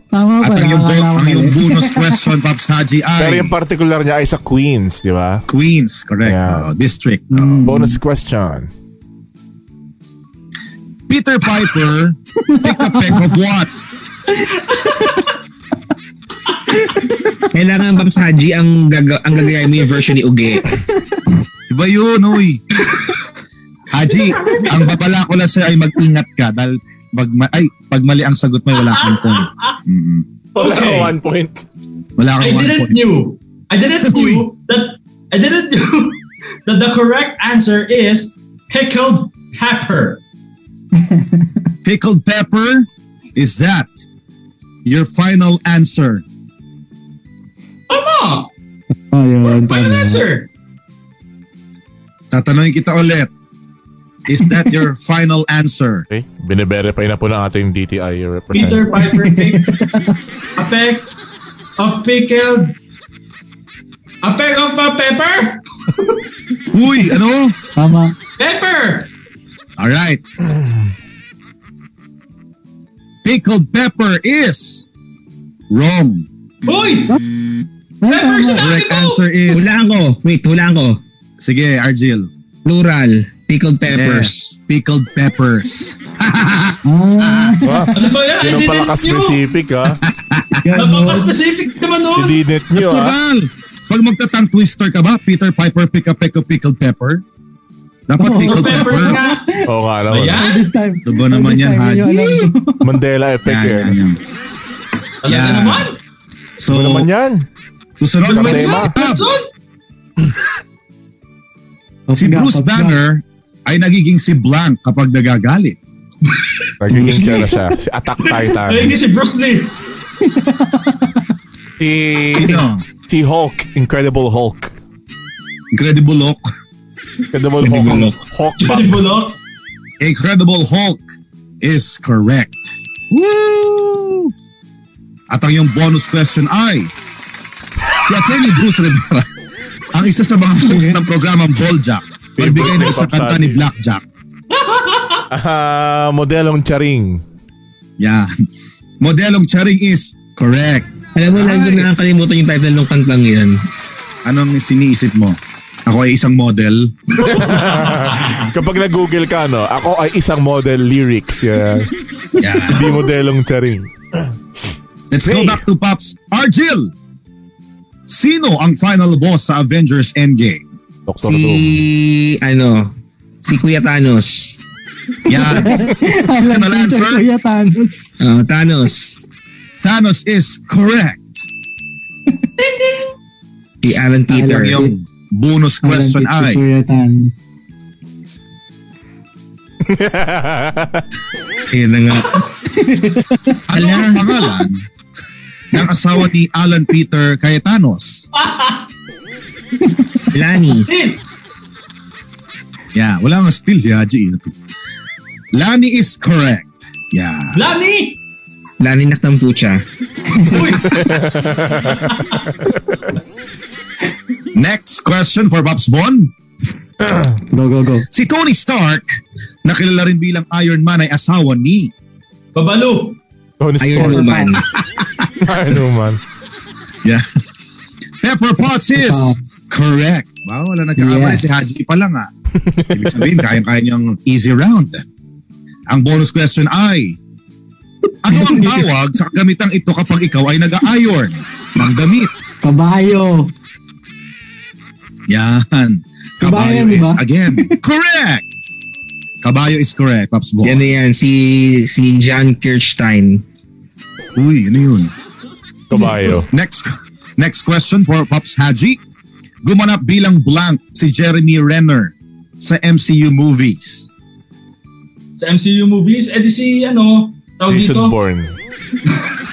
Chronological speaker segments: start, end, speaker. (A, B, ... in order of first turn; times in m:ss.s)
0:00.1-0:02.2 A
0:00.4-0:03.5 B
0:03.2-0:05.4 C
0:05.5-0:07.7 B
0:06.2-0:06.7 C
0:07.3-0:08.0 A
0:07.6-0:08.7 C
0:11.1-0:13.7 B
0:12.4-0:13.3 A
0:14.4-0:15.2 A
0:14.7-0:15.2 D
0:16.7-0:17.3 A
0:17.5-0:20.6 E
0:21.7-0:22.6 B
0:22.8-0:23.2 D
0:23.9-0:30.3 B
0:24.3-0:24.8 D
0:28.8-0:29.7 D
0:30.5-0:31.6 C
0:30.6-0:31.1 D
0:32.2-0:33.0 B
0:32.4-0:40.2 D
0:34.0-0:34.5 B
0:40.9-0:41.5 A
0:41.8-0:44.0 B
0:44.8-0:46.2 B
0:47.9-0:48.5 D
0:49.1-0:50.2 A
0:49.4-0:50.5 D
0:52.3-0:53.3 B
0:54.2-0:56.0 B
0:54.4-0:54.7 A
0:56.1-0:58.9 C
0:58.5-0:59.6 D
0:58.9-1:00.2 A
1:00.6-1:01.1 D
1:01.8-1:02.7 D
1:04.2-1:06.2 D
1:06.7-1:07.5 B
1:07.8-1:08.1 A
1:08.4-1:09.1 D
1:09.8-1:10.2 B
1:13.2-1:14.8 B
1:15.7-1:16.2 B
1:16.6-1:17.2 D
1:18.0-1:18.7 A
1:18.1-1:19.2 D
1:18.6-1:19.7 B
1:19.5-1:21.0 E
1:21.4-1:22.3 B
1:22.6-1:24.5 E
1:23.9-1:27.6 B
1:26.8-1:28.1 A
1:27.6-1:30.0 C
1:27.9-1:29.4 D
1:30.0-1:30.6 B
1:30.6-1:31.3 A
1:30.7-1:32.4 D
1:32.2-1:33.2 C
1:32.7-1:37.2 B
1:38.1-1:39.4 B
1:38.2-1:39.7 A
1:38.4-1:39.4 D
1:39.6-1:40.5 C
1:40.1-1:40.6 D
1:40.3-1:42.9 A
1:41.0-1:42.5 B
1:42.8-1:44.0 C
1:43.4-1:44.2 B
1:45.2-1:46.0 D
1:45.3-1:45.9 B
1:46.6-1:47.1 B
1:46.7-1:47.4 C
1:48.0-1:49.3 B
1:48.2-1:49.4 D
1:48.3-1:48.9 C
1:52.1-1:53.0 A
1:52.1-1:55.8 B
1:56.2-1:56.7 D
1:56.8-1:59.0 C
1:56.9-1:57.7 A
1:58.2-1:59.7 D
2:00.2-2:01.2 A
2:01.8-2:04.7 C
2:02.3-2:02.8 B
2:05.7-2:06.4 B
2:07.3-2:09.0 C
2:07.6-2:08.2 E
2:08.6-2:09.4 D
2:10.0-2:11.0 B
2:11.6-2:14.3 B
2:15.3-2:16.9 B
2:18.0-2:19.3 B
2:19.9-2:24.0 B
2:20.6-2:21.0 A
2:22.4-2:23.6 C
2:24.5-2:25.2 D
2:25.3-2:27.2 C
2:28.0-2:28.3 B
2:29.0-2:31.9 B
2:31.1-2:33.6 E
2:34.2-2:36.9 B
2:37.2-2:38.5 D
2:37.2-2:41.9 C
2:42.4-2:42.9 B
2:42.7-2:44.3 C
2:45.1-2:46.9 B
2:45.2-2:45.6 C
2:48.1-2:50.6 B
2:51.1-2:51.8 C
2:51.2-2:54.6 E
2:55.3-2:57.2 B
2:55.3-2:58.2 A
2:58.2-2:59.2 E
2:59.8-3:01.4 B
3:02.6-3:03.1 D
3:03.8-3:04.8 E
3:04.3-3:04.9 A
3:04.4-3:06.6 B
3:05.8-3:07.4 A
3:09.8-3:11.0 C
3:11.7-3:12.4 E
3:12.6-3:13.6 A
3:13.7-3:14.8 B
3:13.7-3:14.2 E
3:15.7-3:18.2 B
3:18.3-3:18.9 D
3:19.8-3:20.2 A
3:20.3-3:20.9 E
3:20.6-3:21.2 D
3:22.9-3:24.5 B
3:25.5-3:27.6 B
3:27.5-3:28.2 D
3:28.8-3:29.8 E
3:30.4-3:31.2 D
3:30.8-3:32.1 C
3:32.0-3:32.4 D
3:34.5-3:36.3 B
3:37.5-3:38.1 A
3:38.1-3:41.9 B
3:42.5-3:43.2 D
3:43.6-3:44.5 C
3:43.8-3:44.7 E
3:43.9-3:44.7 A
3:45.4-3:46.2 C
3:48.2-3:52.3 B
3:48.9-3:49.6 A
3:51.0-3:51.7 A
3:52.9-3:55.0 B
3:55.9-3:57.2 B
3:58.2-4:02.3 B
3:58.3-3:58.9 A
4:02.6-4:03.5 A
4:05.3-4:08.5 B
4:06.4-4:07.8 A
4:09.4-4:10.8 B
4:10.6-4:13.4 E
4:14.4-4:15.1 B
4:15.9-4:16.5 C
4:16.4-4:19.0 B
4:19.6-4:24.1 B
4:25.4-4:28.1 D
4:27.7-4:28.6 C
4:29.1-4:29.3 D